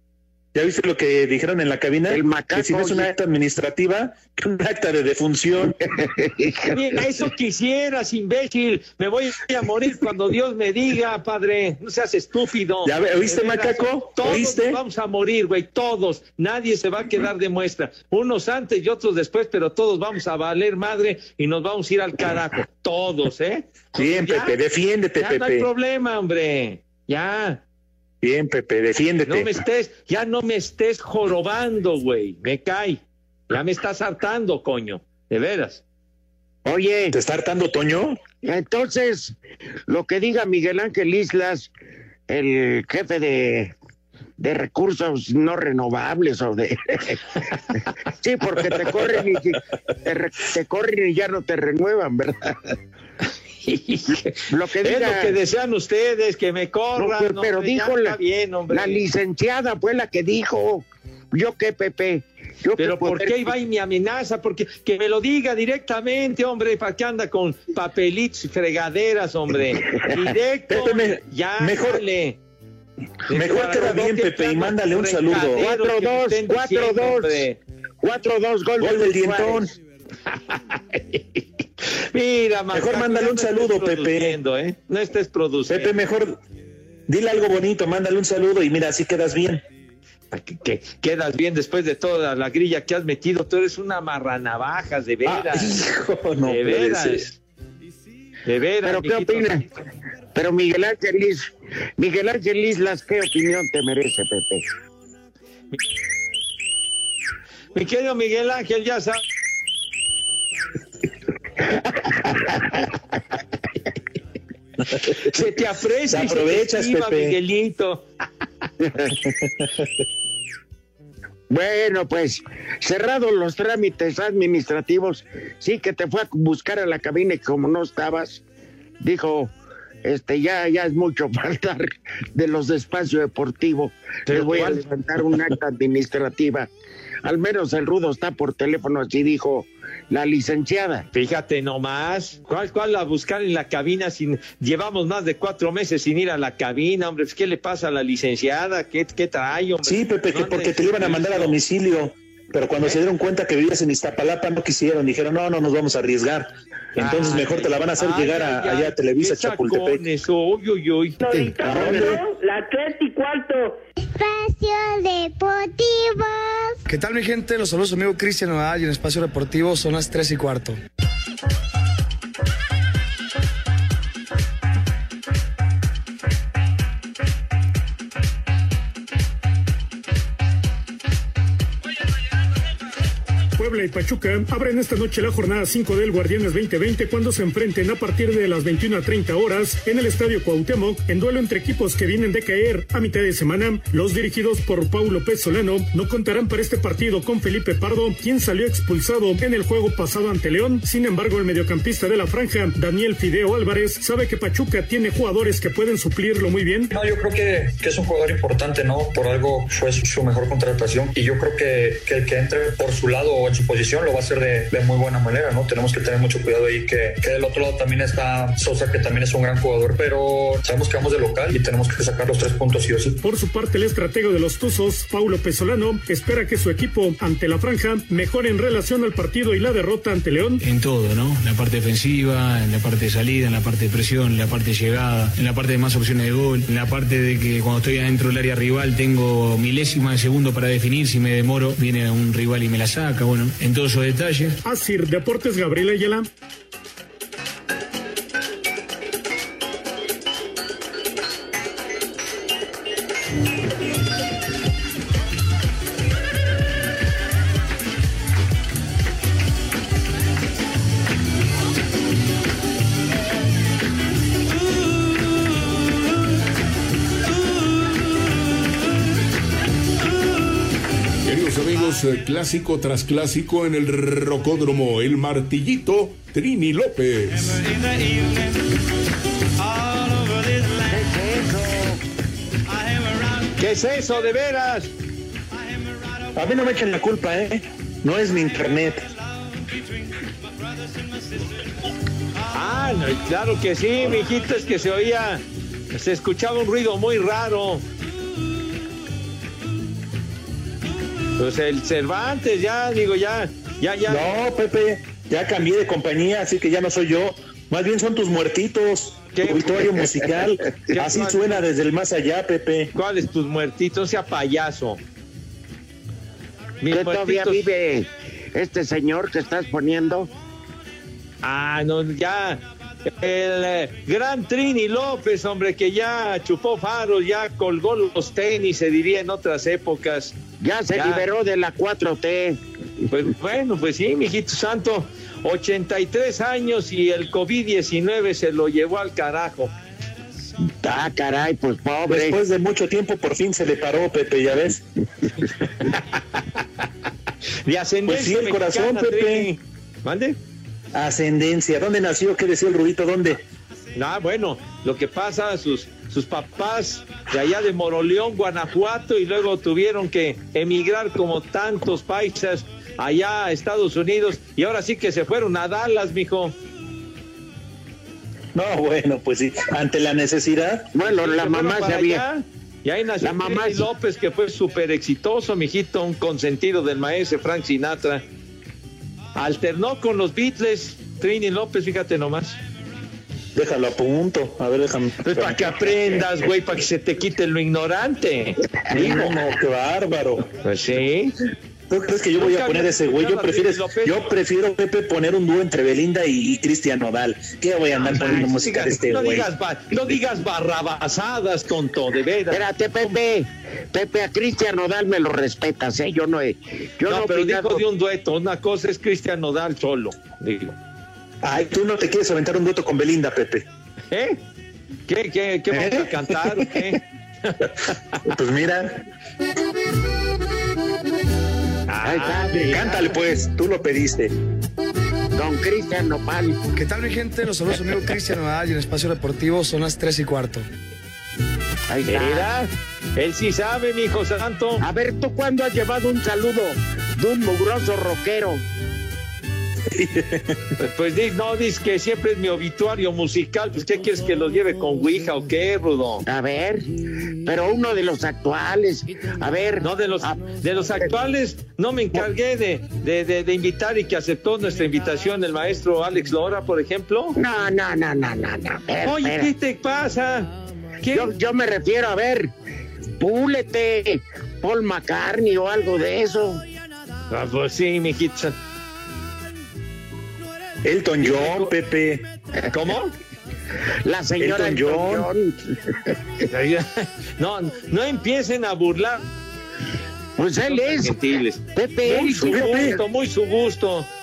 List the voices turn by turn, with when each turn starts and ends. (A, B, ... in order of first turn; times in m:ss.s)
0:00.5-0:05.8 A
0:02.1-0:03.1 B
0:05.9-0:07.0 B
0:06.7-0:24.6 C
0:12.8-0:14.8 A
0:24.0-0:25.7 A
0:25.2-0:27.6 C
0:28.2-0:29.5 A
0:29.3-0:35.8 C
0:36.6-0:37.2 B
0:37.1-0:38.2 A
0:38.4-0:39.4 B
0:39.9-0:41.7 B
0:42.3-0:43.7 B
0:44.4-0:47.2 B
0:48.1-0:52.8 B
0:53.6-0:59.0 C
0:54.5-0:55.4 B
0:57.0-0:58.2 B
0:58.7-1:03.5 B
1:02.8-1:12.4 C
1:10.7-1:12.0 A
1:13.3-1:17.6 C
1:13.3-1:15.6 A
1:15.6-1:17.4 B
1:18.0-1:19.7 B
1:18.8-1:19.7 A
1:20.3-1:21.4 C
1:22.0-1:25.9 C
1:22.7-1:24.4 A
1:25.7-1:26.4 A
1:27.1-1:29.6 A
1:30.3-1:35.8 C
1:35.2-1:37.3 A
1:36.4-1:37.4 C
1:38.4-1:39.6 C
1:38.8-1:39.7 B
1:40.3-1:44.6 B
1:47.8-1:49.2 C
1:51.6-1:52.8 B
1:55.0-1:58.0 C
1:56.1-1:57.4 A
1:58.8-1:59.1 B
1:59.4-1:59.7 A
2:01.5-2:08.4 B
2:09.0-2:09.5 B
2:10.0-2:16.7 B
2:14.3-2:14.8 C
2:17.2-2:21.1 B
2:21.1-2:31.6 C
2:29.8-2:40.0 A
2:37.0-2:41.2 C
2:41.2-2:43.8 D
2:41.3-2:42.2 A
2:44.0-2:46.8 E
2:46.9-2:50.8 F
3:03.6-3:26.9 G
3:26.9-3:43.2 H
3:43.2-3:50.6 G
3:50.6-4:04.6 I
4:04.6-4:06.3 G
4:31.2-4:37.9 J
4:40.8-4:42.0 B
4:43.4-4:44.9 C
4:46.4-4:49.1 A
4:52.5-4:57.8 C
5:01.4-5:04.4 C
5:04.1-5:12.9 A
5:09.4-5:09.9 C
5:10.9-5:11.6 C
5:12.9-5:15.0 C
5:16.8-5:17.6 C
5:16.9-5:20.3 B
5:21.4-5:30.4 C
5:30.6-5:32.6 B
5:31.0-5:31.2 C
5:33.1-5:39.7 C
5:40.6-5:42.4 B
5:42.1-5:44.8 A
5:47.6-5:50.4 C
5:48.1-5:49.5 A
5:50.9-5:53.4 A
5:54.0-6:06.5 C
6:08.5-6:10.9 A
6:10.9-6:12.2 B
6:11.0-6:18.2 C
6:13.2-6:13.9 B
6:19.4-6:22.6 C
6:23.6-6:26.2 A
6:25.2-6:29.3 C
6:28.9-6:30.5 A
6:28.9-6:29.2 B
6:30.6-6:31.4 C
6:31.9-6:39.5 A
6:32.4-6:34.3 C
6:38.0-6:42.6 C
6:42.5-6:47.8 B
6:47.0-6:50.8 C
6:51.4-6:53.6 A
6:54.1-6:54.4 C
6:55.1-6:57.6 C
6:55.7-6:56.3 A
6:58.2-6:59.0 A
7:01.9-7:03.0 C
7:02.0-7:03.0 B
7:02.5-7:04.3 A
7:05.4-7:06.6 B
7:06.8-7:10.6 F
7:11.9-7:12.7 B
7:12.1-7:12.6 C
7:13.2-7:14.8 C
7:14.8-7:18.6 B
7:19.9-7:20.6 A
7:20.8-7:26.2 C
7:26.2-7:26.9 B
7:27.4-7:31.1 B
7:29.8-7:37.4 C
7:37.4-7:39.5 B
7:39.0-7:41.3 C
7:41.1-7:42.5 B
7:43.2-7:46.6 B
7:47.3-7:48.6 C
7:50.8-7:52.2 A
7:51.2-7:51.7 C
7:52.7-7:53.1 C
7:54.0-7:56.2 B
7:54.4-7:55.3 A
7:56.5-7:59.2 C
8:00.4-8:01.2 B
8:00.7-8:04.1 C
8:01.8-8:03.0 B
8:02.2-8:03.0 A